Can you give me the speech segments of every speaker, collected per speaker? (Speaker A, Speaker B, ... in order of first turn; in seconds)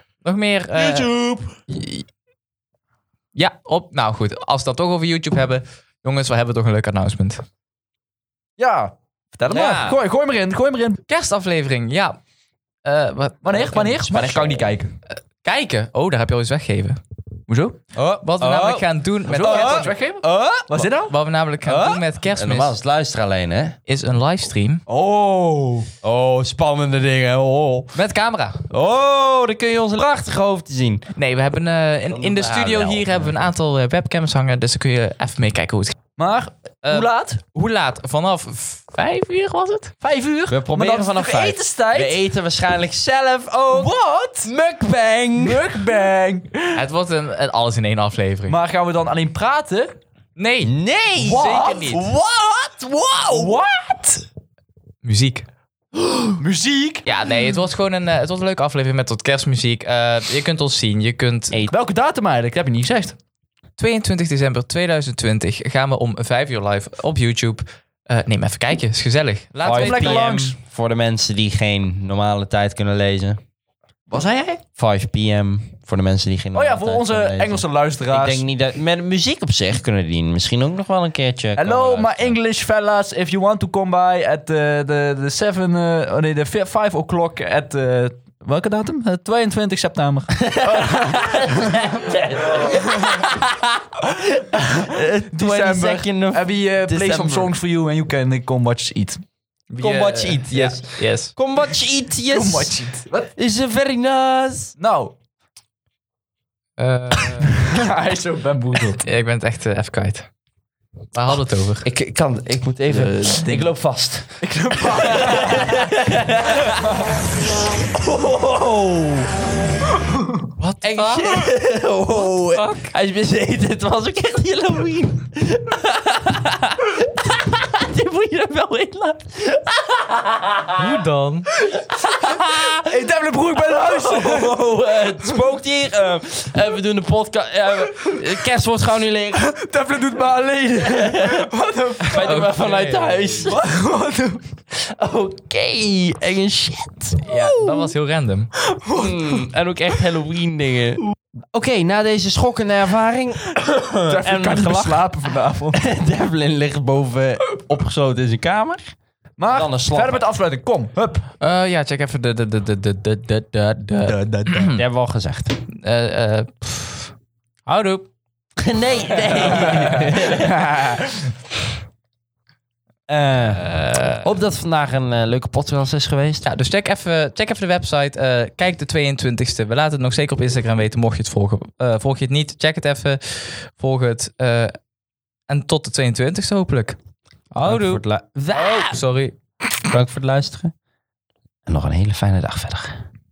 Speaker A: 0.2-1.1, 3.3-7.4, 11.1-12.2, 12.8-14.5, 15.4-17.0, 18.2-19.9, 21.0-22.7, 23.9-24.8, 27.9-28.6, 31.1-36.0, 36.8-39.9, 46.7-48.6, 50.4-50.7, 51.2-52.0, 55.0-55.5, 57.0-61.6, 63.8-70.3, 99.7-101.3, 106.8-107.5, 109.0-110.3, 111.1-111.9, 120.6-121.5, 122.5-122.9, 130.8-131.5, 142.2-143.4, 147.2-148.5, 161.4-164.8, 165.7-167.1, 167.7-168.1, 173.6-174.2, 176.4-184.8, 185.5-187.0, 187.5-189.3
Speaker B: 0.7-1.8, 8.6-11.0, 13.4-14.9, 17.5-17.8, 19.3-21.1, 24.9-25.9, 36.2-37.4, 40.0-42.2, 43.7-44.5, 45.4-46.8, 48.5-50.0, 51.2-52.0, 53.3-54.2, 56.4-57.1, 61.7-63.2, 69.8-70.6, 74.1-74.6, 76.5-78.5, 81.5-93.2, 94.5-99.2, 102.3-103.3, 104.8-105.1, 107.6-109.0, 112.9-113.8, 114.4-115.9, 116.8-117.1, 120.0-120.4, 132.8-134.7, 139.3-142.5, 143.5-144.4, 148.8-149.4, 154.1-155.8, 159.4-161.3, 164.0-164.7, 169.6-171.3
Speaker C: 9.5-10.0, 17.9-20.7, 21.6-23.8, 26.0-27.9, 28.7-31.1, 32.1-33.3, 40.5-45.6, 50.6-53.6, 69.6-73.4, 74.8-82.3, 90.4-93.7, 94.6-97.5, 99.8-104.8, 111.8-116.9, 117.8-119.3, 120.8-131.0, 131.6-133.0, 133.6-139.6, 140.8-141.5, 142.0-143.6, 144.7-147.2, 148.9-155.1, 155.7-158.9, 159.5-160.2, 164.7-165.6, 168.6-170.7, 173.1-176.4, 187.6-189.0, 189.8-190.7, 191.7-193.1